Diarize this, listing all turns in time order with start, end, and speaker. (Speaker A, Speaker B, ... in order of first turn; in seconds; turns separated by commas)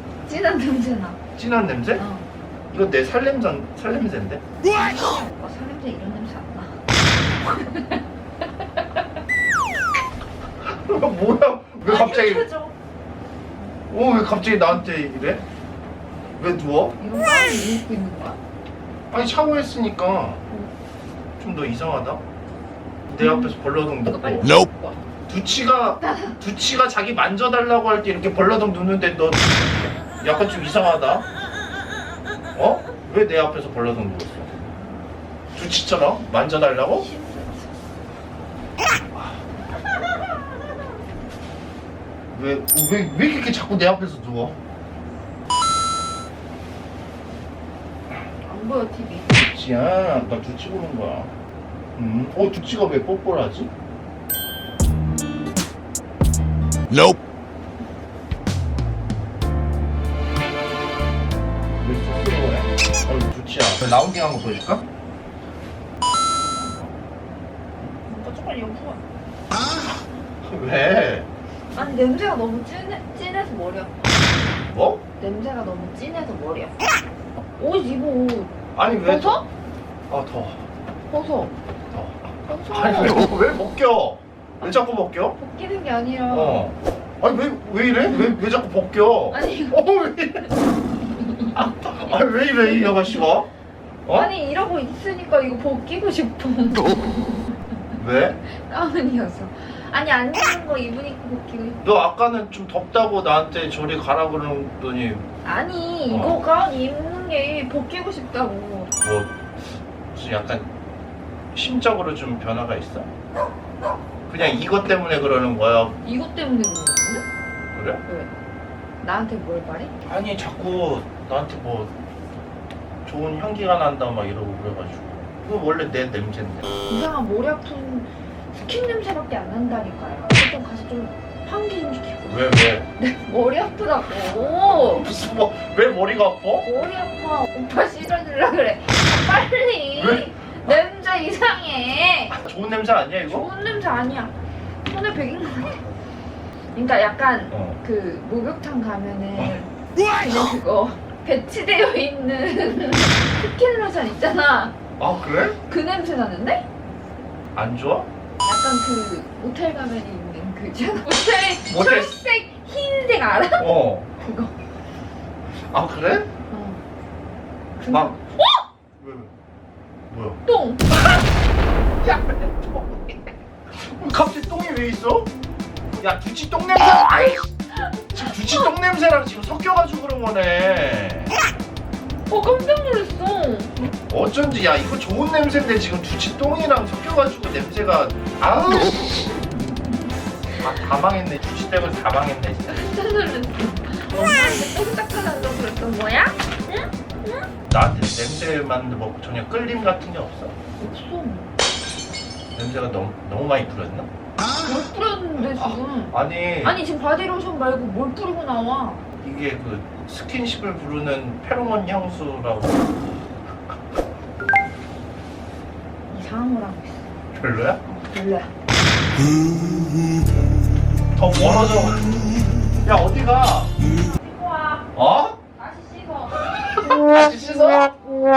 Speaker A: 0.2-1.2, Speaker B: 1.4-2.0, Speaker A: 2.0-2.3, Speaker B: 2.7-4.4, Speaker A: 4.7-6.8, Speaker A: 7.4-8.0, Speaker B: 10.6-12.5, Speaker A: 11.8-12.7, Speaker B: 13.9-15.4, Speaker B: 16.4-17.0, Speaker A: 17.0-18.4, Speaker B: 19.1-20.4, Speaker B: 21.4-22.2, Speaker B: 23.1-24.6, Speaker A: 23.2-25.0, Speaker B: 25.3-31.3, Speaker A: 26.0-26.4, Speaker B: 32.5-34.7, Speaker B: 35.5-37.1, Speaker A: 36.9-37.7, Speaker B: 42.3-44.6, Speaker A: 48.4-49.3, Speaker B: 49.3-51.3, Speaker B: 52.0-53.7, Speaker B: 61.8-64.8, Speaker B: 66.6-66.9, Speaker A: 68.1-69.0, Speaker B: 70.4-71.3, Speaker A: 71.7-74.4, Speaker B: 74.7-75.0, Speaker A: 75.2-76.8, Speaker A: 77.6-79.5, Speaker B: 78.8-79.4, Speaker B: 80.1-80.6, Speaker A: 81.1-81.5, Speaker B: 81.9-85.4, Speaker A: 82.5-83.2, Speaker A: 85.4-86.7, Speaker B: 86.3-90.5, Speaker A: 89.3-89.8, Speaker A: 91.2-93.3, Speaker B: 91.5-93.5, Speaker B: 94.1-94.3, Speaker A: 94.1-97.8, Speaker B: 98.0-98.4, Speaker A: 98.4-101.8, Speaker B: 101.8-105.3, Speaker A: 105.4-108.9, Speaker B: 106.1-106.4, Speaker B: 109.0-110.7, Speaker B: 111.5-113.1, Speaker B: 114.3-116.0, Speaker A: 116.0-117.2, Speaker B: 117.8-118.0, Speaker A: 119.0-119.9, Speaker B: 120.0-121.9, Speaker B: 123.0-126.7, Speaker A: 126.9-135.1, Speaker B: 132.3-132.9, Speaker B: 134.8-136.7, Speaker A: 136.6-142.4, Speaker B: 139.9-140.3, Speaker B: 142.3-143.5, Speaker A: 143.3-144.3, Speaker A: 144.9-145.8, Speaker A: 146.7-154.8, Speaker B: 147.5-147.8, Speaker B: 149.4-149.6, Speaker B: 155.0-155.6, Speaker A: 155.7-156.7, Speaker B: 157.6-158.1, Speaker A: 158.4-164.6, Speaker B: 161.7-162.2, Speaker B: 163.6-164.2, Speaker B: 165.7-166.3, Speaker A: 166.5-166.8, Speaker A: 167.8-168.6, Speaker B: 167.9-168.2, Speaker B: 169.0-169.3, Speaker B: 170.1-170.4, Speaker A: 170.4-171.2, Speaker B: 172.0-173.2, Speaker B: 173.7-175.3, Speaker B: 176.0-177.5, Speaker B: 178.1-181.3, Speaker A: 182.3-183.7, Speaker B: 184.1-189.6, Speaker B: 190.6-192.9, Speaker A: 192.7-197.5, Speaker B: 197.7-200.5, Speaker A: 200.8-201.5, Speaker B: 202.6-204.1, Speaker A: 204.6-209.0, Speaker B: 205.4-206.8, Speaker B: 209.2-212.9, Speaker A: 216.1-217.1, Speaker B: 217.3-217.8, Speaker A: 217.8-218.5, Speaker B: 221.2-222.1, Speaker B: 222.8-223.7, Speaker A: 224.0-224.9, Speaker B: 224.9-225.4, Speaker A: 225.6-226.7, Speaker B: 226.8-227.9